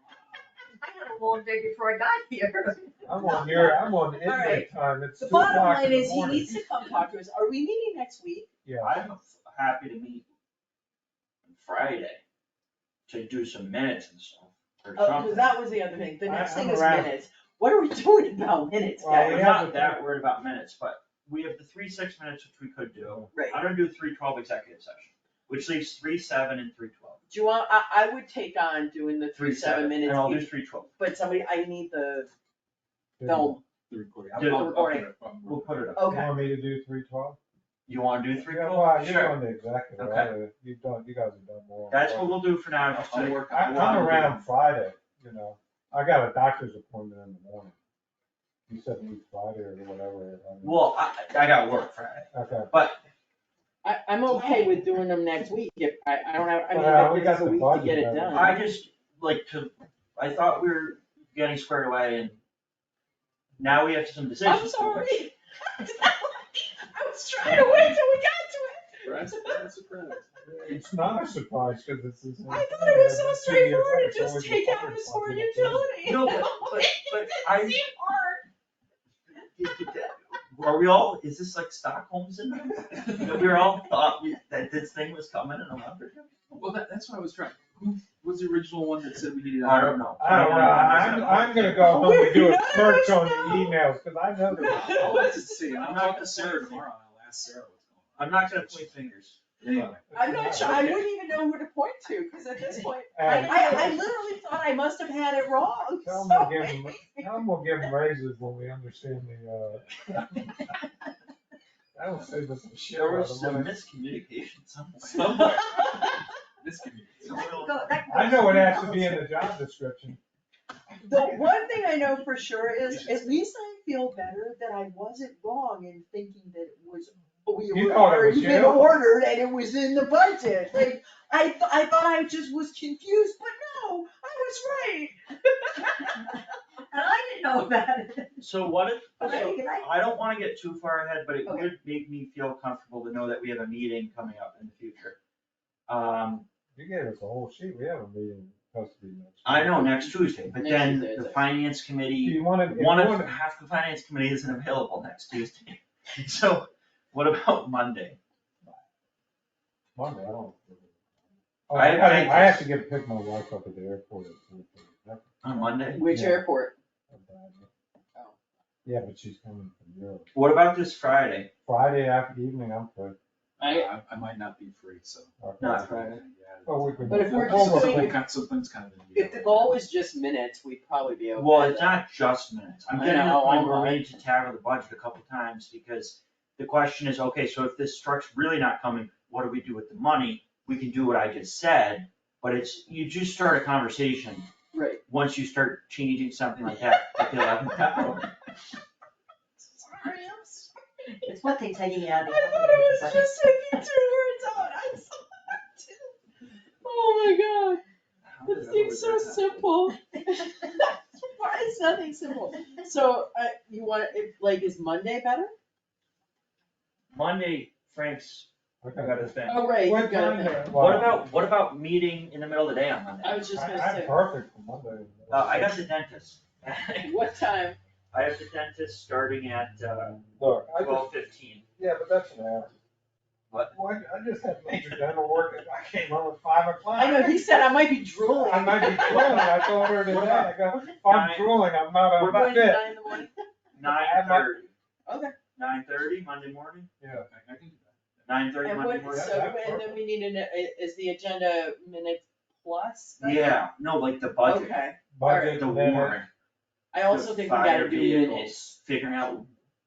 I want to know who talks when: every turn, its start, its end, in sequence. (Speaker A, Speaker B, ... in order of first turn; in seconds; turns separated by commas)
Speaker A: 0.8-3.7, Speaker B: 3.0-6.5, Speaker C: 3.1-4.7, Speaker C: 5.2-8.5, Speaker B: 8.6-9.0, Speaker D: 8.8-10.2, Speaker D: 11.4-12.2, Speaker D: 13.1-15.5, Speaker C: 14.9-19.4, Speaker B: 16.2-17.1, Speaker B: 19.0-20.0, Speaker D: 19.2-27.2, Speaker B: 23.0-23.3, Speaker C: 23.3-23.6, Speaker C: 27.3-32.3, Speaker D: 29.3-30.9, Speaker B: 33.2-33.6, Speaker C: 33.2-33.6, Speaker E: 33.8-36.1, Speaker D: 34.3-34.9, Speaker C: 34.4-35.1, Speaker D: 35.4-36.4, Speaker C: 36.0-36.3, Speaker B: 36.0-37.4, Speaker D: 37.9-40.3, Speaker B: 38.3-42.5, Speaker D: 41.9-44.4, Speaker E: 42.8-44.4, Speaker B: 43.5-47.7, Speaker B: 48.7-50.9, Speaker D: 50.6-53.0, Speaker B: 52.3-52.7, Speaker C: 53.8-58.6, Speaker B: 56.7-58.6, Speaker D: 58.3-62.4, Speaker D: 63.6-65.1, Speaker C: 64.4-69.6, Speaker E: 69.0-70.3, Speaker B: 70.4-75.9, Speaker C: 72.5-78.5, Speaker D: 76.0-77.8, Speaker D: 79.6-86.4, Speaker E: 82.9-83.6, Speaker E: 86.5-91.4, Speaker D: 89.6-92.0, Speaker B: 90.2-95.2, Speaker C: 91.5-93.8, Speaker C: 94.5-95.6, Speaker E: 94.7-98.9, Speaker D: 95.7-96.9, Speaker D: 98.2-100.0, Speaker E: 99.6-100.0, Speaker B: 100.1-101.0, Speaker C: 100.1-107.5, Speaker D: 100.5-101.0, Speaker B: 103.1-104.0, Speaker A: 103.2-104.0, Speaker B: 106.0-110.0, Speaker B: 111.9-113.8, Speaker D: 112.9-115.7, Speaker E: 115.1-117.5, Speaker C: 115.8-116.1, Speaker D: 117.2-118.3, Speaker A: 117.3-119.2, Speaker B: 118.1-120.2, Speaker C: 121.0-136.2, Speaker B: 121.1-121.4, Speaker E: 122.8-123.4, Speaker B: 127.7-128.9, Speaker A: 136.9-138.4, Speaker D: 138.4-145.2, Speaker A: 139.2-139.9, Speaker A: 141.4-141.7, Speaker D: 145.9-146.4, Speaker B: 146.7-150.1, Speaker D: 149.4-158.2, Speaker C: 150.6-151.4, Speaker B: 152.2-153.3, Speaker B: 159.9-161.0, Speaker B: 161.7-166.4, Speaker D: 161.7-162.7, Speaker D: 165.4-166.1, Speaker C: 165.9-166.8, Speaker B: 167.1-167.7, Speaker B: 168.8-170.3, Speaker D: 170.3-171.5, Speaker B: 171.6-173.2, Speaker E: 173.6-179.8, Speaker C: 173.6-173.9, Speaker B: 175.4-178.2, Speaker D: 175.6-176.2, Speaker C: 177.1-178.2, Speaker C: 179.1-182.0, Speaker D: 181.3-194.5, Speaker C: 182.9-184.0, Speaker C: 194.7-195.0, Speaker D: 195.1-198.3, Speaker C: 199.6-200.7, Speaker A: 201.2-203.8, Speaker C: 202.2-206.2, Speaker C: 206.8-207.8, Speaker D: 208.2-209.7, Speaker C: 208.4-215.5, Speaker D: 217.1-219.8, Speaker B: 218.8-221.3, Speaker C: 219.4-220.7, Speaker D: 220.7-223.5, Speaker C: 223.2-224.2, Speaker B: 223.5-225.8, Speaker D: 225.3-227.3, Speaker C: 227.0-227.8, Speaker D: 228.1-231.6, Speaker B: 230.3-231.1, Speaker B: 231.8-232.7, Speaker D: 233.5-233.7, Speaker B: 233.7-237.6, Speaker D: 234.7-235.1, Speaker C: 236.9-239.9, Speaker B: 238.2-242.9, Speaker D: 239.1-242.6, Speaker C: 242.3-243.3, Speaker D: 243.8-244.7, Speaker B: 243.8-244.5, Speaker C: 245.1-245.3, Speaker D: 245.6-246.9, Speaker B: 247.0-247.2, Speaker E: 247.1-247.9, Speaker D: 248.2-249.4, Speaker C: 248.6-253.6, Speaker B: 249.1-250.0, Speaker D: 253.2-254.8, Speaker C: 254.4-255.6, Speaker B: 255.1-256.2, Speaker D: 255.3-256.3, Speaker C: 256.9-258.6, Speaker D: 257.1-259.5